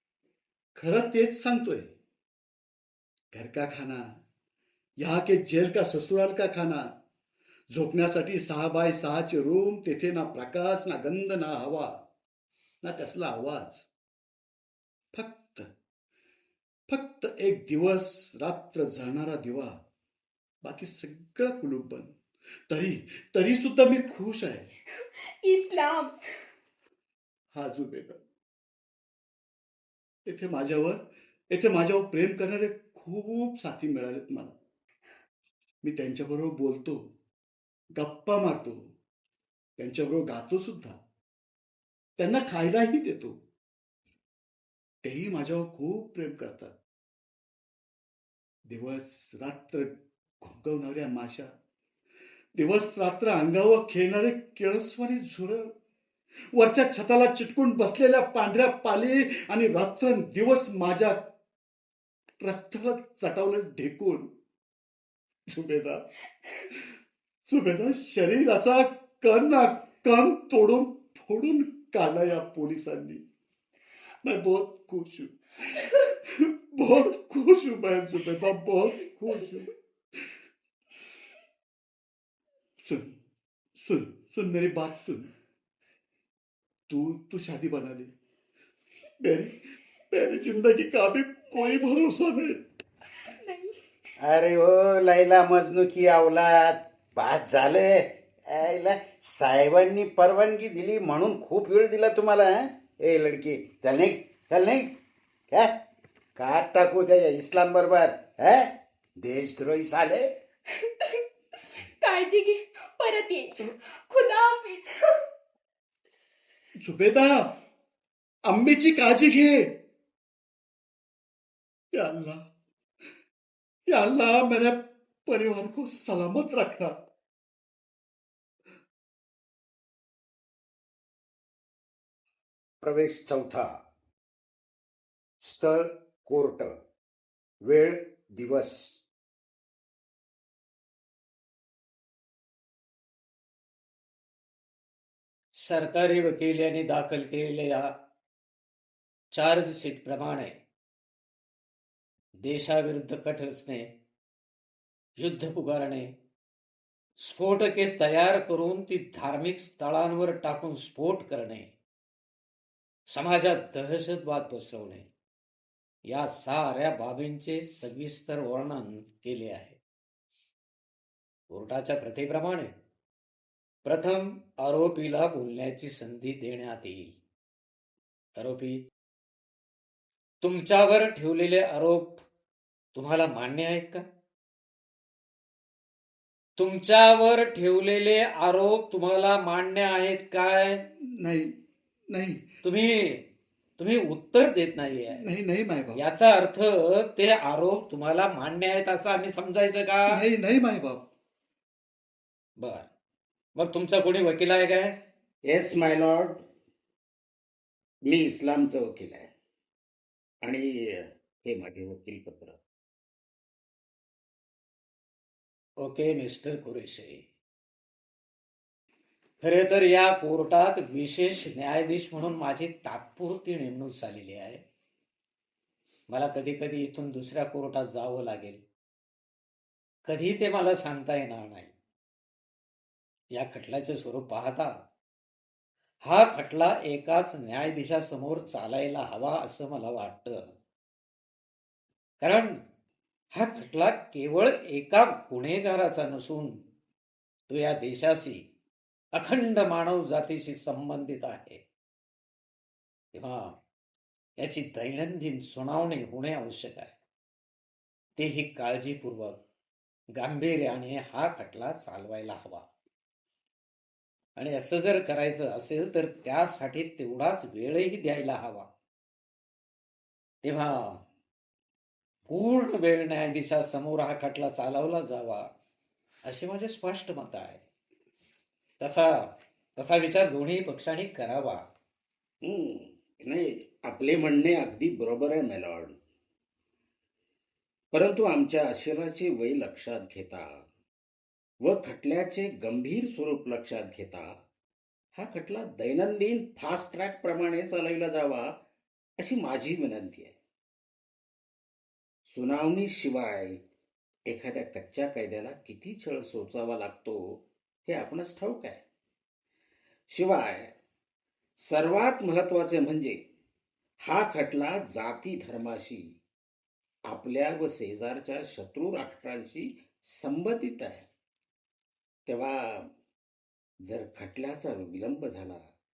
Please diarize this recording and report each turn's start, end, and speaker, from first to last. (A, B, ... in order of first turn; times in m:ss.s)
0:00.7-0:01.9 A
0:03.3-0:04.2 A
0:05.0-0:06.9 A
0:07.7-0:12.0 A
0:12.8-0:13.8 A
0:15.1-0:15.7 A
0:16.9-0:19.8 A
0:20.6-0:22.2 A
0:22.7-0:24.7 A
0:24.9-0:26.1 B
0:27.5-0:28.2 A
0:30.2-0:34.5 A
0:35.8-0:37.1 A
0:37.9-0:38.9 A
0:39.8-0:41.0 A
0:42.2-0:43.4 A
0:45.0-0:46.7 A
0:48.7-0:51.5 A
0:52.6-0:55.7 A
0:56.5-1:01.2 A
1:02.4-1:04.3 A
1:05.5-1:06.1 A
1:06.7-1:06.9 A
1:07.5-1:13.2 A
1:14.2-1:20.3 A
1:22.8-1:23.1 A
1:23.8-1:25.3 A
1:26.9-1:28.1 A
1:29.2-1:32.6 A
1:33.2-1:33.8 B
1:34.2-1:44.9 C
1:45.5-1:45.8 C
1:46.4-1:50.3 C
1:50.7-1:51.2 B
1:52.0-1:55.2 B
1:56.8-1:57.5 A
1:58.4-1:59.7 A
2:01.9-2:02.4 A
2:03.9-2:06.9 A
2:12.8-2:13.8 C
2:15.4-2:16.8 C
2:17.6-2:18.9 C
2:25.6-2:27.9 D
2:29.3-2:30.5 D
2:32.4-2:33.9 D
2:35.2-2:36.1 D
2:37.2-2:41.7 D
2:43.1-2:45.0 D
2:46.1-2:49.8 D
2:51.5-2:52.7 D
2:53.8-2:57.1 D
2:58.4-2:58.8 D
3:00.4-3:02.2 D
3:02.9-3:04.0 D
3:06.6-3:10.8 D
3:11.0-3:11.5 A
3:12.1-3:12.4 A
3:12.6-3:13.2 D
3:13.8-3:15.2 D
3:15.1-3:16.0 A
3:15.9-3:20.2 D
3:20.1-3:21.0 A
3:22.6-3:22.9 D
3:23.6-3:25.0 D
3:25.4-3:26.4 E
3:28.0-3:29.3 E
3:30.4-3:32.6 E
3:35.8-3:37.2 D
3:39.4-3:44.6 D
3:46.1-3:48.6 D
3:50.0-3:51.7 D
3:53.3-3:54.7 D
3:56.0-4:00.4 D
4:02.2-4:02.6 D
4:03.3-4:06.6 D
4:07.5-4:08.4 D
4:09.1-4:11.6 D
4:13.1-4:13.6 D
4:14.4-4:16.9 D
4:18.2-4:19.4 D
4:20.2-4:22.6 D
4:24.4-4:28.7 D
4:30.4-4:31.0 D
4:32.3-4:35.5 D
4:36.2-4:37.6 D
4:38.8-4:41.6 D
4:42.4-4:46.0 E
4:47.9-4:50.6 E
4:51.6-4:54.3 E
4:55.1-4:58.5 E
4:59.2-5:00.3 E
5:02.3-5:03.6 E
5:04.2-5:08.8 E
5:10.1-5:10.7 E
5:11.6-5:13.2 E
5:14.0-5:16.2 E
5:17.1-5:21.0 E
5:22.3-5:22.9 E
5:23.9-5:25.6 E